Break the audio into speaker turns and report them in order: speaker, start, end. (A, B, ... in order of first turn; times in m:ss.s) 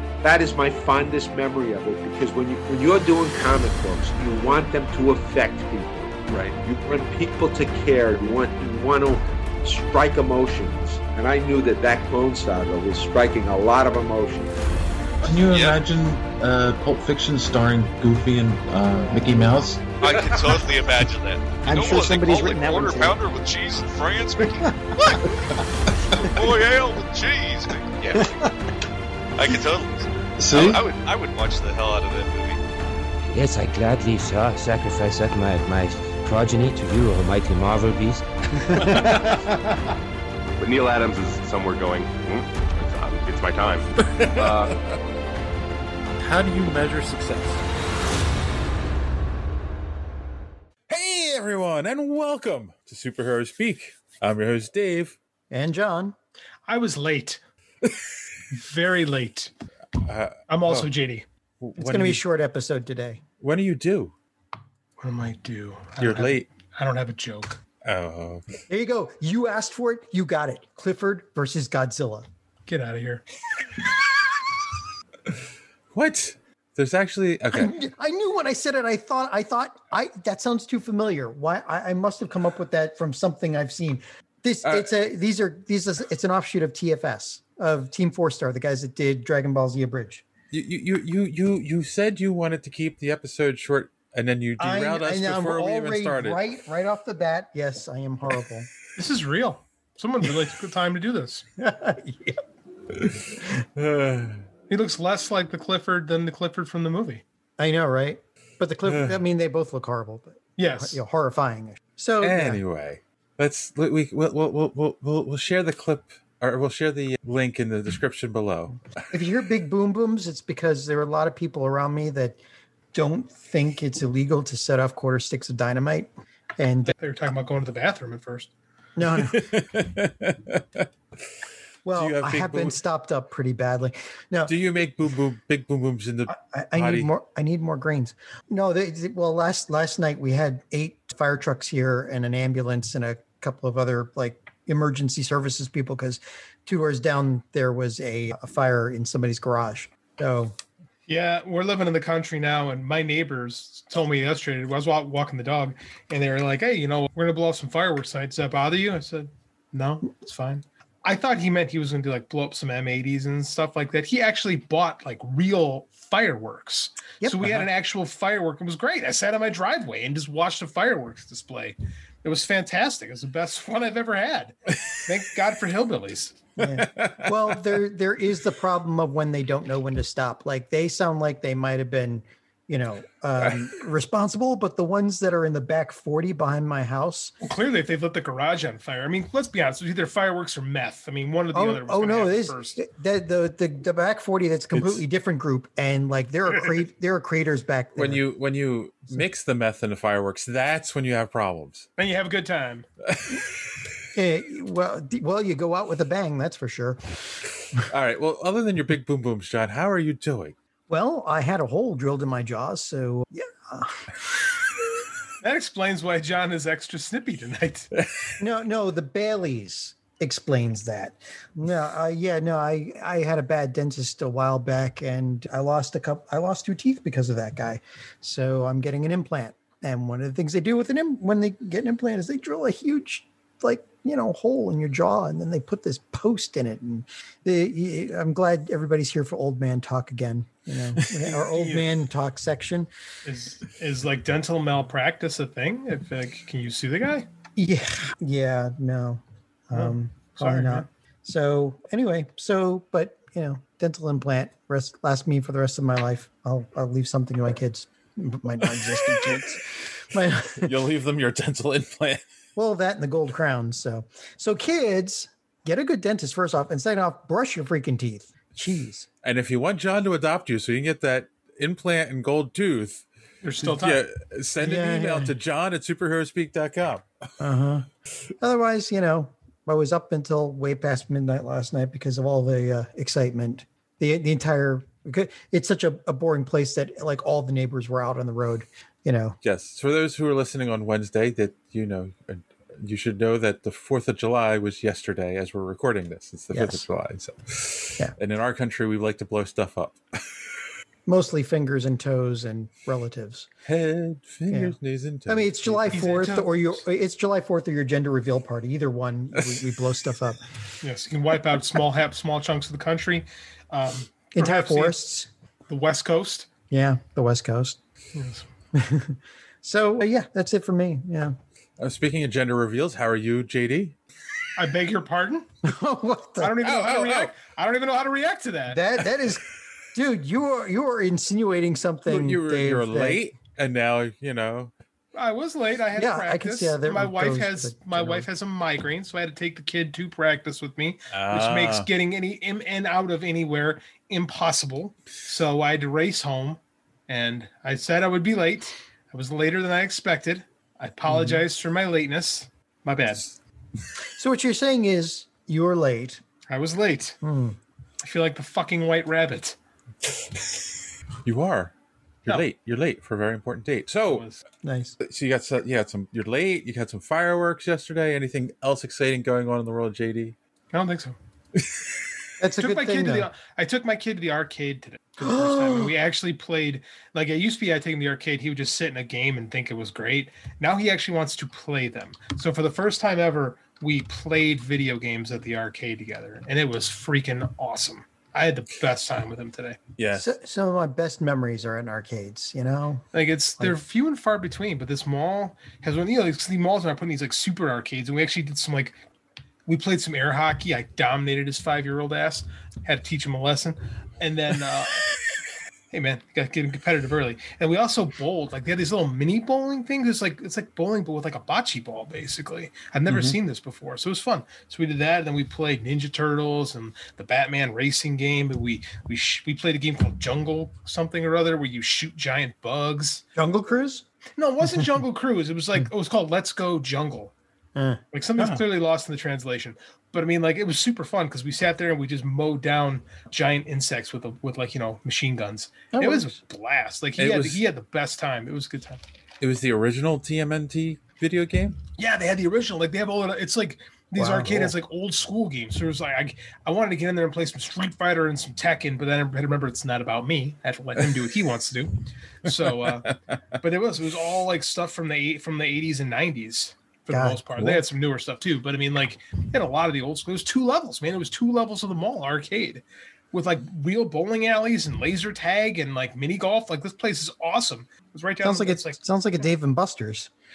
0:00.2-0:14.5 A
0:15.3-0:19.8 B
0:15.4-0:15.8 C
0:19.0-0:20.0 D
0:20.0-0:25.3 C
0:21.6-0:23.2 D
0:26.2-0:28.4 C
0:29.4-0:32.6 C
0:30.4-0:30.7 B
0:33.3-0:38.2 E
0:38.8-0:39.3 F
0:40.6-0:44.8 F
0:44.1-0:44.7 G
0:46.2-0:47.6 G
0:50.9-0:55.2 G
0:55.5-0:56.2 D
0:56.7-0:57.4 H
0:58.5-0:59.5 H
1:00.0-1:00.9 G
1:00.5-1:01.2 H
1:01.6-1:02.2 G
1:01.8-1:03.2 D
1:03.4-1:04.1 G
1:05.0-1:07.6 H
1:06.0-1:06.4 G
1:07.8-1:08.4 G
1:08.7-1:12.3 D
1:12.7-1:13.2 H
1:15.9-1:17.7 G
1:17.5-1:30.2 D
1:30.5-1:36.4 G
1:34.6-1:38.7 D
1:39.0-1:41.4 H
1:41.6-1:42.4 D
1:42.9-1:43.2 G
1:43.8-1:44.4 G
1:44.7-1:47.2 H
1:47.6-1:52.6 D
1:48.8-1:49.2 G
1:50.6-1:51.0 H
1:52.2-1:58.8 G
1:59.1-2:02.4 D
2:02.9-2:06.9 D
2:06.9-2:08.5 H
2:09.0-2:09.7 D
2:09.0-2:10.8 G
2:11.8-2:14.5 D
2:11.9-2:12.8 G
2:14.5-2:17.1 G
2:16.3-2:30.6 D
2:31.1-2:56.4 H
2:47.2-2:47.6 D
2:56.6-3:07.3 D
2:56.6-2:57.3 G
3:07.4-3:12.8 H
3:11.5-3:18.2 D
3:14.7-3:15.0 G
3:17.9-3:21.9 G
3:22.0-3:22.8 H
3:23.0-3:23.4 G
3:24.1-3:27.0 D
3:27.8-3:30.5 G
3:30.9-3:34.1 D
3:35.4-3:37.9 H
3:38.4-4:02.9 D
4:01.5-4:01.9 H
4:03.2-4:07.3 H
4:07.6-4:20.7 D
4:09.7-4:10.9 H
4:20.6-4:22.2 G
4:22.6-4:29.1 D
4:29.2-4:33.0 G
4:33.4-4:34.0 H
4:33.6-4:37.1 G
4:34.6-4:35.4 D
4:37.4-4:37.9 D
4:38.4-4:49.4 D
4:49.4-5:00.0 G
4:56.5-4:56.8 D
5:01.0-5:03.5 D
5:03.6-5:06.0 G
5:04.5-5:04.8 D
5:05.3-5:10.4 D
5:05.9-5:06.5 H
5:10.8-5:15.0 H
5:14.3-5:15.3 D
5:15.7-5:16.5 H
5:16.7-5:17.8 D
5:18.1-5:18.4 H
5:18.7-5:21.4 D
5:21.8-5:24.0 G
5:24.5-5:25.5 H
5:25.6-5:26.6 D
5:26.4-5:28.8 H
5:26.6-5:27.3 G
5:28.7-5:33.2 D
5:32.0-5:34.7 G
5:35.1-5:53.3 H
5:35.9-5:38.3 D
5:41.1-5:41.9 G
5:51.1-5:51.4 D
5:54.0-5:56.2 D
5:56.5-5:57.2 H
5:57.2-5:57.6 D
5:58.0-5:59.6 H
6:01.2-6:01.7 G
6:02.2-6:04.2 G
6:04.1-6:04.4 H
6:04.6-6:05.0 D
6:05.0-6:10.3 G
6:10.7-6:11.2 H
6:12.4-6:13.3 D
6:12.6-6:29.8 H
6:15.2-6:15.9 D
6:30.0-6:30.3 G
6:30.1-6:33.0 D
6:33.1-6:39.0 H
6:39.6-6:45.1 H
6:45.9-7:03.2 H
6:53.1-6:53.3 G
7:03.4-7:04.0 D
7:04.4-7:07.3 H
7:07.7-7:08.6 D
7:08.1-7:19.0 H
7:15.9-7:16.3 D
7:17.2-7:17.6 G
7:19.4-7:21.8 G
7:22.0-7:33.1 H
7:24.2-7:24.7 D
7:32.5-7:33.1 G
7:33.6-7:49.0 H
7:37.1-7:37.4 D
7:37.6-7:37.8 G
7:48.4-7:50.3 D